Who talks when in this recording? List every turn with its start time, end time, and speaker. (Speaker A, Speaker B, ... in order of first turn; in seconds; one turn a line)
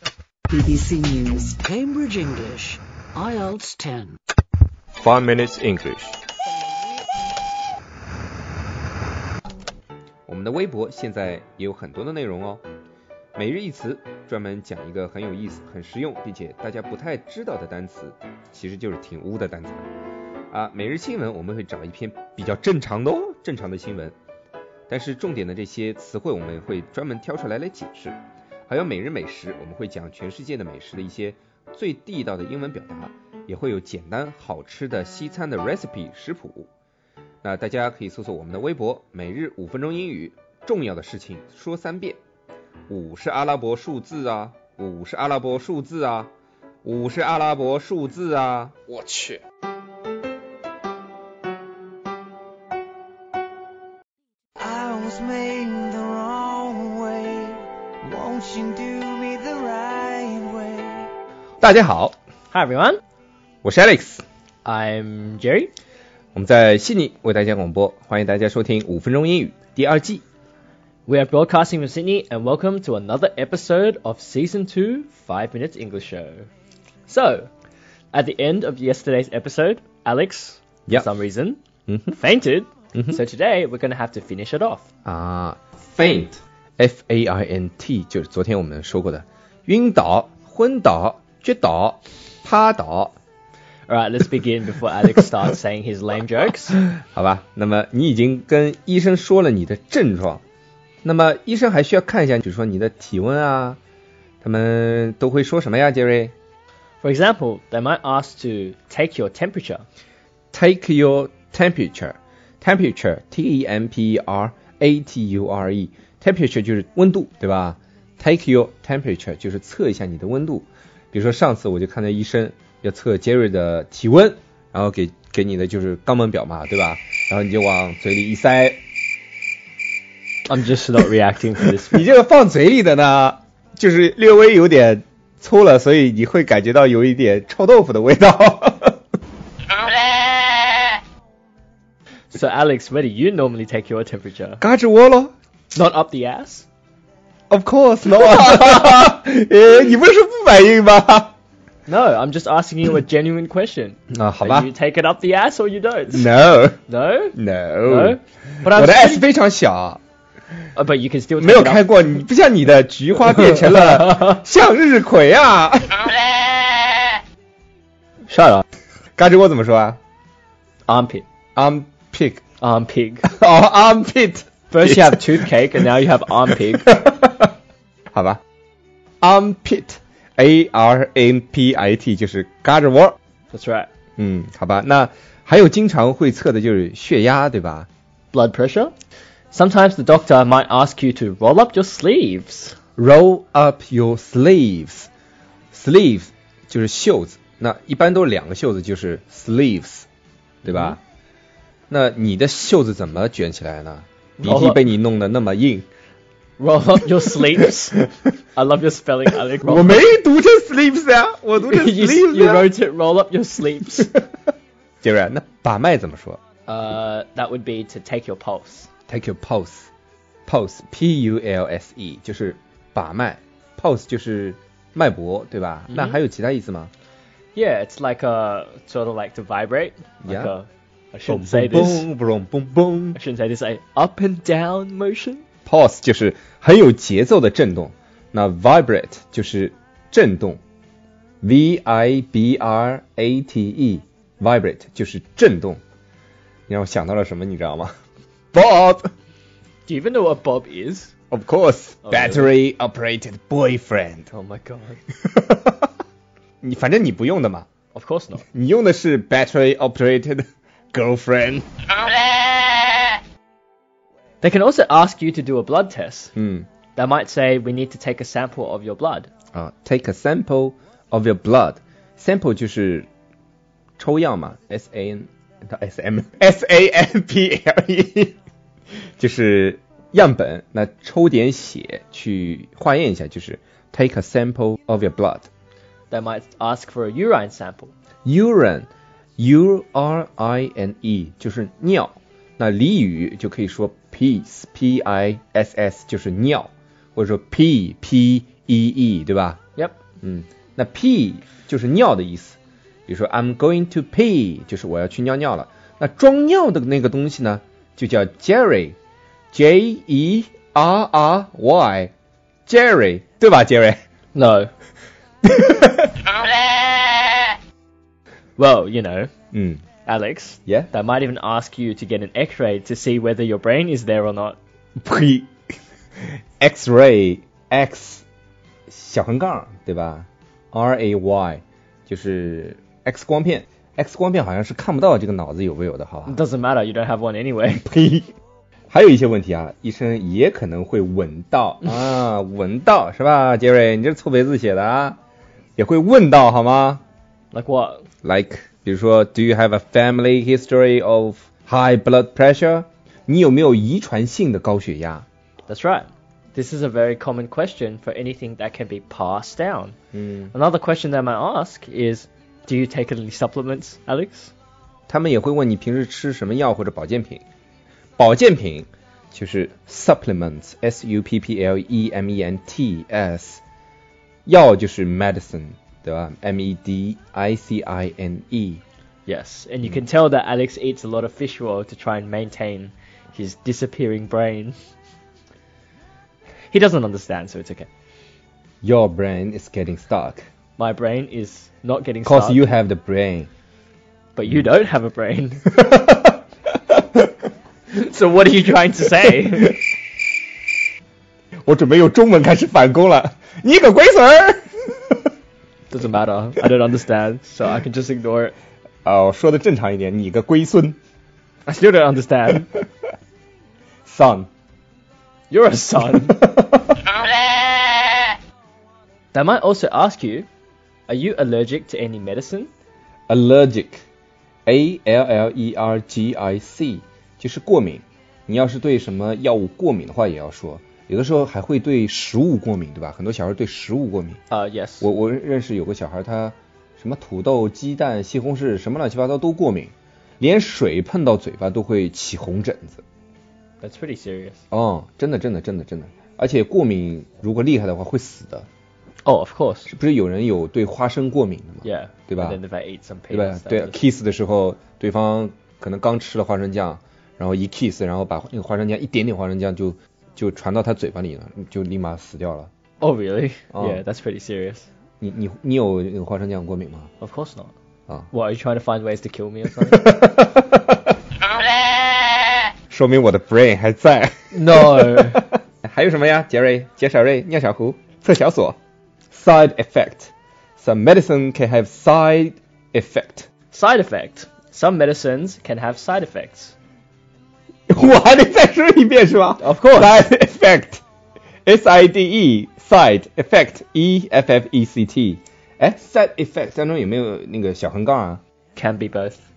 Speaker A: 0.5-4.2
Speaker B: 5.0-6.2
Speaker B: 10.3-12.6
Speaker B: 13.3-19.9
Speaker B: 20.5-24.1
Speaker B: 24.9-36.7
Speaker B: 37.4-42.2
Speaker B: 42.9-46.3
Speaker B: 46.8-49.4
Speaker A: 54.6-56.8
Speaker C: 55.1-57.6
Speaker C: 58.1-60.8
Speaker A: 59.7-61.0
Speaker B: 61.6-62.1
Speaker D: 62.5-63.0
Speaker B: 63.6-64.2
Speaker D: 64.7-65.7
Speaker B: 66.3-70.2
Speaker D: 71.1-76.5
Speaker D: 77.1-77.5
Speaker D: 78.1-84.8
Speaker B: 81.9-82.2
Speaker B: 85.0-93.2
Speaker D: 93.9-96.8
Speaker B: 96.9-100.4
Speaker B: 101.0-103.8
Speaker B: 104.4-106.3
Speaker D: 107.0-109.8
Speaker B: 110.5-128.8
Speaker D: 130.5-132.1
Speaker B: 131.9-139.0
Speaker D: 142.3-144.6
Speaker B: 144.6-145.3
Speaker D: 145.7-146.7
Speaker B: 147.5-151.3
Speaker D: 151.9-156.3
Speaker B: 154.1-154.7
Speaker B: 156.1-156.8
Speaker D: 156.9-159.3
Speaker B: 157.3-160.0
Speaker D: 160.7-162.0
Speaker B: 161.4-166.1
Speaker D: 168.3-168.6
Speaker B: 169.2-170.0
Speaker D: 170.9-171.2
Speaker B: 171.6-172.4
Speaker D: 172.6-173.3
Speaker B: 173.3-175.5
Speaker D: 174.7-177.0
Speaker B: 176.8-177.5
Speaker B: 178.1-178.4
Speaker B: 179.2-183.2
Speaker D: 183.5-183.9
Speaker B: 184.2-187.9
Speaker D: 188.3-188.9
Speaker D: 189.5-192.8
Speaker B: 193.0-195.1
Speaker B: 195.7-200.1
Speaker D: 200.7-201.0
Speaker B: 200.7-201.0
Speaker B: 201.9-205.9
Speaker D: 204.4-204.8
Speaker D: 206.6-210.1
Speaker B: 209.6-212.7
Speaker D: 211.6-214.2
Speaker B: 215.0-216.4
Speaker D: 216.7-218.9
Speaker B: 219.1-219.9
Speaker B: 220.5-226.9
Speaker D: 225.9-226.2
Speaker D: 227.5-232.1
Speaker B: 230.2-230.5
Speaker B: 231.3-233.2
Speaker D: 233.2-235.4
Speaker B: 235.7-240.6
Speaker B: 241.4-245.8
Speaker B: 246.7-247.9
Speaker B: 248.5-249.1
Speaker D: 249.9-251.1
Speaker B: 251.3-254.3
Speaker D: 252.1-252.5
Speaker D: 254.3-255.0
Speaker B: 255.2-255.9
Speaker B: 256.6-257.7
Speaker D: 257.9-258.4
Speaker B: 258.5-261.7
Speaker D: 264.4-266.3
Speaker B: 266.4-266.7
Speaker D: 267.0-269.3
Speaker B: 269.5-273.1
Speaker B: 274.0-278.4
Speaker B: 279.2-285.5
Speaker D: 286.1-287.9
Speaker B: 288.2-299.6
Speaker B: 300.2-309.0
Speaker B: 309.5-312.1
Speaker B: 312.7-314.0
Speaker D: 314.3-314.7
Speaker B: 315.4-316.2
Speaker D: 318.6-319.3
Speaker B: 319.5-319.8
Speaker D: 320.0-324.6
Speaker B: 325.0-325.5
Speaker B: 326.2-328.2
Speaker B: 328.9-336.4
Speaker D: 336.3-337.9
Speaker B: 337.8-338.3
Speaker B: 338.9-345.2
Speaker B: 345.8-347.0
Speaker D: 347.5-348.1
Speaker B: 348.2-355.3
Speaker D: 355.7-360.0
Speaker B: 360.1-360.5
Speaker D: 360.5-364.5
Speaker B: 365.1-367.4
Speaker B: 368.2-373.6
Speaker B: 374.5-378.8
Speaker D: 379.3-384.8
Speaker D: 386.7-387.9
Speaker B: 388.8-390.5
Speaker D: 390.8-392.7
Speaker B: 392.2-393.5
Speaker D: 394.4-395.8
Speaker B: 395.7-396.4
Speaker D: 397.9-399.8
Speaker B: 401.6-405.2
Speaker D: 405.9-408.5
Speaker B: 409.1-411.0
Speaker D: 411.7-412.7
Speaker B: 414.1-414.5
Speaker D: 415.5-416.4
Speaker B: 416.3-417.0
Speaker D: 419.3-420.5
Speaker D: 421.1-422.7
Speaker B: 423.3-424.0
Speaker B: 424.7-434.4
Speaker D: 434.5-435.1
Speaker B: 435.0-443.0
Speaker D: 443.8-444.6
Speaker B: 444.7-448.7
Speaker D: 449.2-449.9
Speaker B: 449.9-452.6
Speaker D: 451.8-454.0
Speaker B: 453.3-462.7
Speaker D: 463.0-464.9
Speaker B: 463.7-464.0
Speaker B: 465.2-467.1
Speaker D: 467.2-467.7
Speaker D: 468.3-470.2
Speaker B: 469.9-471.1
Speaker B: 472.9-478.8
Speaker D: 474.5-475.5
Speaker B: 479.3-483.5
Speaker D: 483.7-486.7
Speaker B: 487.9-491.0
Speaker D: 489.6-490.2
Speaker B: 491.7-498.4
Speaker D: 498.8-499.4